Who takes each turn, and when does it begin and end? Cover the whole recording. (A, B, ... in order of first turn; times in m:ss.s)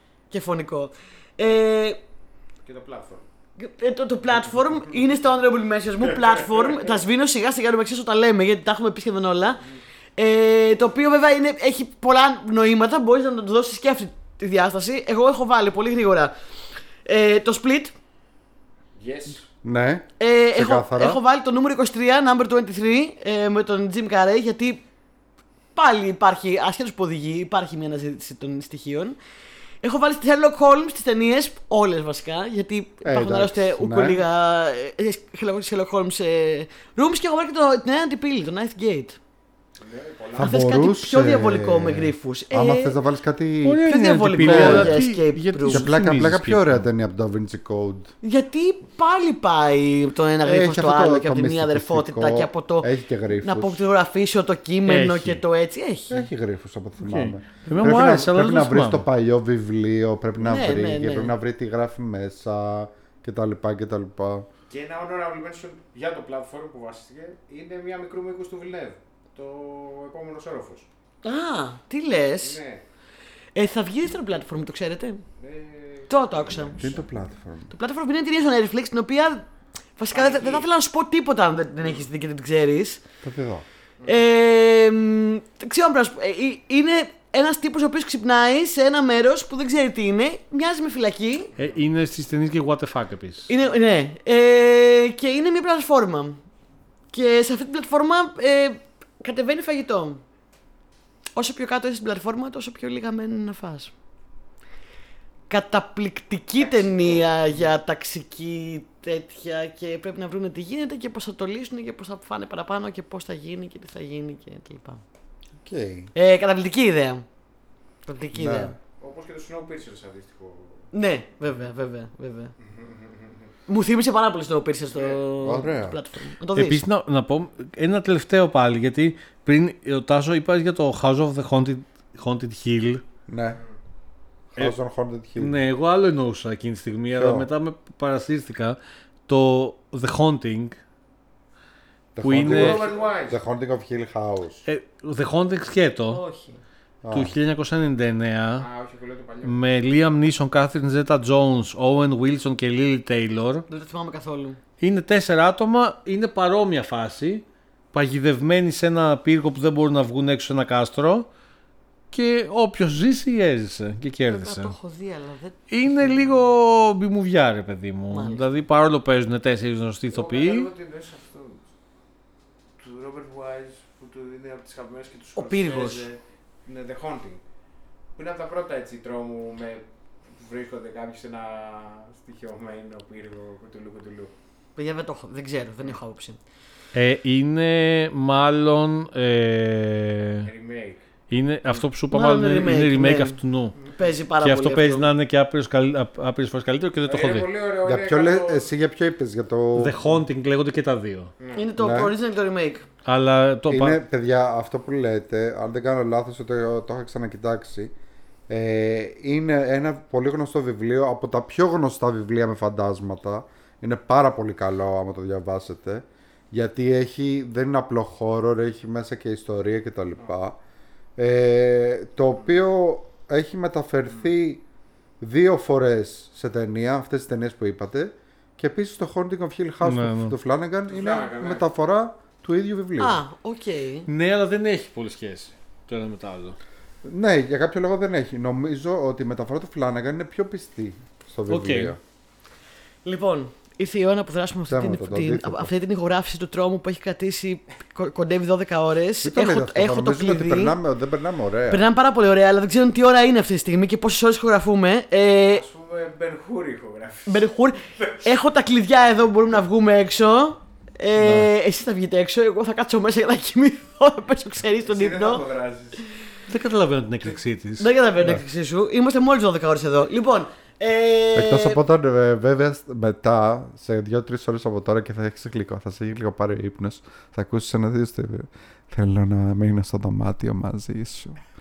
0:00.3-0:02.0 A
0:02.6-0:03.2 B
0:03.6-0:09.6 A
0:06.1-0:06.9 B
0:10.2-0:16.3 A
0:17.0-0:17.9 A
0:19.0-0:19.4 B
0:19.6-0:21.2 C
0:20.2-0:24.8 A
0:25.7-0:29.2 A
0:29.8-0:39.2 A
0:33.0-0:34.2 C
0:39.8-0:40.6 B
0:40.3-0:43.8 C
0:40.4-0:43.0 A
0:43.6-0:46.8 D
0:43.8-0:45.9 A
0:44.4-0:45.0 C
0:45.7-0:48.1 C
0:48.2-0:52.9 A
0:50.4-0:53.8 C
0:53.4-0:56.2 A
0:54.8-0:55.4 D
0:56.1-1:04.5 C
0:57.0-0:59.0 D
1:00.4-1:01.3 A
1:04.7-1:10.9 B
1:11.2-1:12.6 A
1:12.4-1:12.8 B
1:13.5-1:15.2 A
1:15.4-1:17.0 B
1:16.1-1:16.8 A
1:16.8-1:17.7 C
1:17.7-1:19.4 A
1:20.0-1:23.0 A
1:20.1-1:20.7 B
1:23.2-1:23.6 C
1:24.0-1:31.5 A
1:31.6-1:33.5 D
1:33.5-1:36.4 A
1:37.1-1:40.2 A
1:41.4-1:43.9 A
1:45.5-1:55.0 A
1:55.6-1:56.1 C
1:56.1-1:57.2 A
1:58.0-1:58.7 A
1:58.3-1:58.8 C
1:59.0-2:00.9 B
2:00.9-2:02.5 A
2:02.6-2:03.5 B
2:03.7-2:06.8 A
2:04.9-2:05.2 B
2:05.4-2:06.0 C
2:06.5-2:13.0 D
2:13.3-2:13.6 C
2:14.5-2:15.6 C
2:15.4-2:20.8 D
2:17.1-2:17.5 C
2:22.1-2:24.6 C
2:22.2-2:22.9 D
2:22.4-2:23.4 B
2:24.6-2:26.2 D
2:26.1-2:26.6 A
2:27.0-2:27.3 C
2:27.1-2:28.6 D
2:28.6-2:29.6 B
2:29.4-2:33.6 D
2:33.7-2:34.6 A
2:34.8-2:41.3 D
2:42.1-2:44.7 D
2:44.3-2:46.4 A
2:45.7-2:50.7 D
2:48.1-2:48.4 A
2:50.1-2:51.6 B
2:52.8-2:57.4 B
2:55.3-2:56.1 A
2:58.2-3:04.3 B
3:04.8-3:06.4 A
3:06.9-3:10.5 D
3:10.4-3:11.0 B
3:11.3-3:13.9 D
3:12.1-3:13.4 A
3:13.9-3:15.1 A
3:14.4-3:17.5 D
3:17.0-3:18.7 B
3:17.8-3:20.1 C
3:19.7-3:21.3 D
3:21.4-3:21.7 B
3:21.5-3:22.8 A
3:21.8-3:22.1 C
3:23.0-3:24.0 D
3:23.7-3:27.9 C
3:28.5-3:40.6 C
3:41.2-3:44.6 C
3:45.2-3:53.2 C
3:49.8-3:50.3 D
3:50.9-3:51.6 B
3:53.0-3:54.1 A
3:54.1-3:56.6 D
3:57.0-4:02.0 C
4:01.5-4:01.9 D
4:03.0-4:10.8 A
4:04.7-4:05.7 C
4:09.2-4:11.8 C
4:11.7-4:15.6 A
4:15.4-4:18.3 B
4:17.2-4:25.4 A
4:21.2-4:21.5 D
4:24.8-4:26.0 B
4:26.5-4:27.9 D
4:27.8-4:31.8 A
4:31.3-4:41.4 C